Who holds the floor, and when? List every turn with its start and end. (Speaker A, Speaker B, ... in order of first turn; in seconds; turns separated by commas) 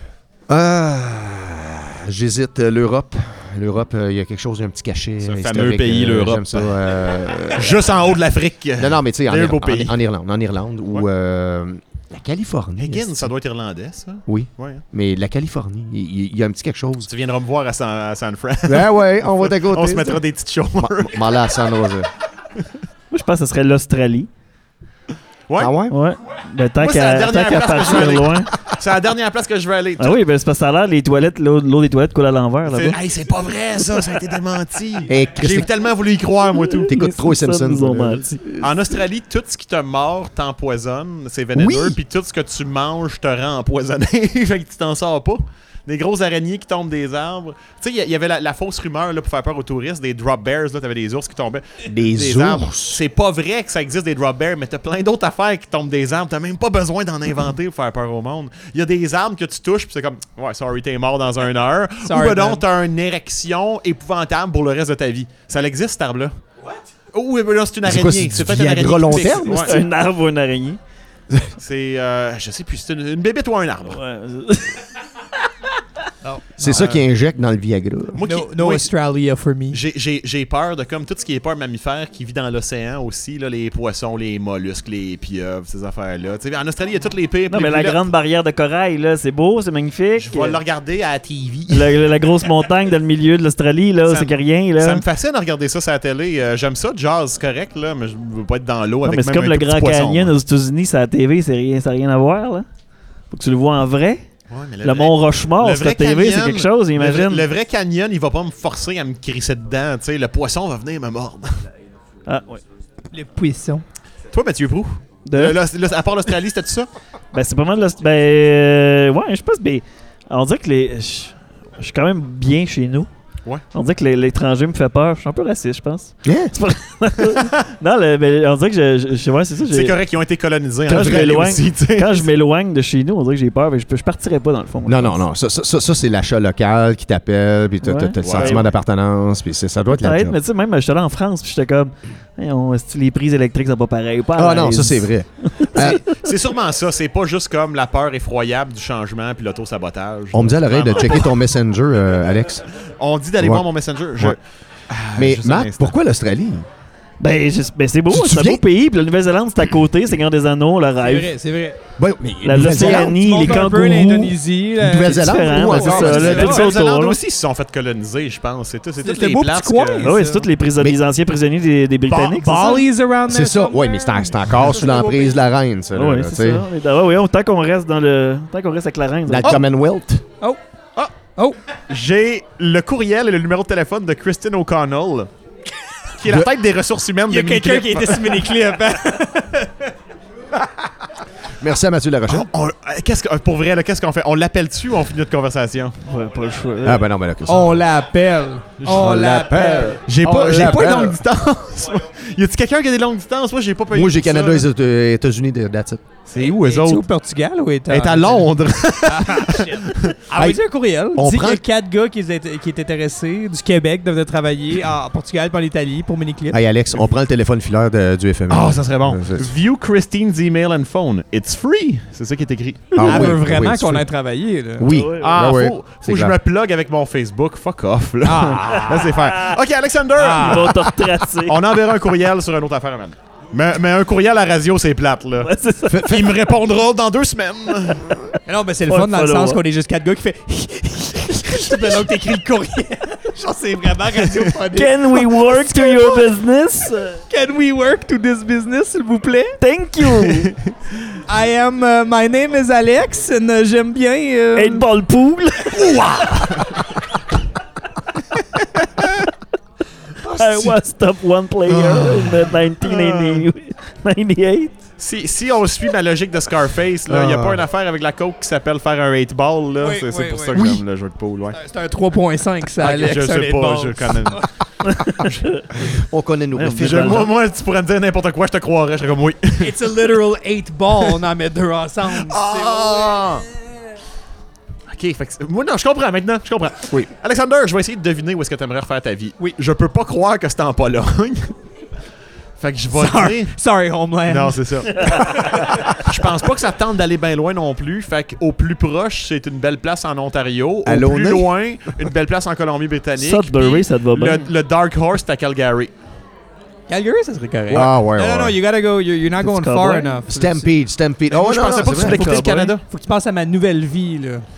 Speaker A: 0.5-7.8, Speaker B: 5.2-6.7, Speaker B: 7.5-10.0, Speaker A: 8.8-13.3, Speaker B: 12.8-14.8, Speaker A: 14.2-17.1, Speaker B: 17.1-21.4, Speaker A: 18.6-20.2, Speaker A: 20.8-22.1, Speaker C: 23.1-24.3, Speaker B: 25.5-25.8, Speaker A: 25.6-25.9, Speaker C: 25.9-28.5, Speaker B: 26.8-30.2, Speaker C: 30.0-33.0, Speaker B: 32.7-36.9, Speaker C: 33.9-34.2, Speaker A: 35.1-35.7, Speaker C: 36.6-38.4, Speaker A: 36.9-38.7, Speaker B: 38.6-66.3, Speaker A: 41.5-42.0, Speaker A: 51.8-53.0, Speaker D: 62.0-62.6, Speaker B: 67.1-69.8, Speaker A: 67.8-69.8, Speaker C: 69.5-70.8, Speaker B: 71.6-74.0, Speaker C: 73.9-74.8, Speaker D: 76.2-76.5, Speaker A: 76.6-78.2, Speaker B: 76.6-77.0, Speaker B: 78.1-78.9, Speaker D: 78.2-79.8, Speaker B: 79.7-88.1, Speaker C: 87.5-90.6, Speaker B: 90.2-92.0, Speaker C: 91.7-95.0, Speaker B: 94.0-100.3, Speaker C: 99.0-102.7, Speaker C: 103.3-104.2, Speaker B: 104.5-111.6, Speaker C: 104.8-107.5, Speaker C: 112.2-112.6, Speaker D: 113.1-113.8, Speaker B: 114.3-116.9, Speaker C: 115.2-115.6, Speaker C: 117.3-123.1, Speaker C: 123.7-130.0, Speaker A: 126.2-126.5, Speaker B: 129.7-132.3, Speaker A: 130.9-131.4, Speaker C: 130.9-135.2, Speaker A: 134.8-140.4, Speaker C: 137.8-138.7, Speaker B: 138.2-138.7, Speaker C: 139.9-146.1, Speaker A: 144.3-146.0, Speaker B: 145.7-151.4, Speaker A: 150.3-152.6, Speaker B: 153.0-155.9, Speaker A: 153.4-153.7, Speaker A: 155.2-156.7, Speaker C: 157.2-161.3, Speaker A: 158.1-158.6, Speaker D: 161.0-161.8, Speaker A: 162.0-163.2, Speaker C: 162.4-164.4, Speaker D: 162.6-166.7, Speaker A: 164.8-166.7, Speaker C: 165.0-167.2, Speaker B: 166.0-170.1, Speaker D: 169.0-170.5, Speaker C: 170.0-172.9, Speaker D: 172.1-175.3, Speaker A: 173.3-176.7, Speaker C: 175.9-179.6, Speaker A: 179.3-180.2, Speaker B: 181.9-185.3, Speaker B: 186.2-188.5, Speaker D: 187.3-189.9, Speaker A: 191.6-192.5, Speaker B: 192.3-196.0, Speaker C: 196.0-197.0, Speaker A: 196.8-197.8, Speaker D: 197.5-200.0, Speaker B: 198.8-199.3, Speaker A: 198.9-201.2, Speaker B: 200.0-204.7, Speaker D: 200.5-200.8, Speaker A: 203.9-206.0, Speaker B: 206.3-207.0, Speaker D: 206.4-208.5, Speaker B: 207.9-210.2, Speaker D: 209.0-216.6, Speaker A: 210.3-210.6, Speaker A: 211.1-211.6, Speaker A: 216.5-219.5, Speaker B: 218.5-223.4, Speaker A: 222.9-224.1, Speaker D: 222.9-224.9, Speaker A: 224.8-226.3, Speaker C: 224.9-225.3, Speaker B: 225.2-230.9, Speaker D: 228.2-229.1, Speaker C: 228.7-229.5, Speaker D: 230.2-230.8, Speaker C: 230.3-231.6, Speaker B: 231.4-238.2, Speaker C: 235.4-236.4, Speaker D: 238.4-246.2, Speaker C: 238.9-239.6, Speaker C: 244.7-247.2, Speaker D: 247.3-249.6, Speaker C: 249.6-250.5, Speaker D: 251.3-254.8, Speaker C: 254.5-256.0, Speaker D: 255.7-256.5, Speaker B: 255.8-256.8, Speaker C: 260.2-264.8, Speaker A: 260.3-260.6, Speaker A: 261.7-262.3, Speaker D: 262.9-263.4, Speaker B: 265.0-271.6, Speaker A: 267.1-267.6, Speaker D: 269.8-270.6, Speaker A: 270.5-270.8, Speaker D: 271.5-274.5, Speaker B: 272.8-274.5, Speaker C: 274.8-275.8, Speaker A: 275.8-277.3, Speaker C: 276.6-277.3, Speaker B: 276.8-280.0, Speaker D: 279.6-283.5, Speaker B: 282.1-283.5, Speaker B: 284.9-291.5, Speaker B: 292.6-293.6, Speaker D: 292.9-296.2, Speaker B: 294.2-305.9, Speaker A: 300.9-301.5, Speaker C: 303.2-304.5, Speaker D: 306.9-310.7, Speaker A: 307.7-308.6, Speaker C: 309.4-310.2, Speaker A: 310.3-312.4, Speaker B: 311.3-312.8, Speaker C: 312.0-312.7, Speaker D: 312.1-314.4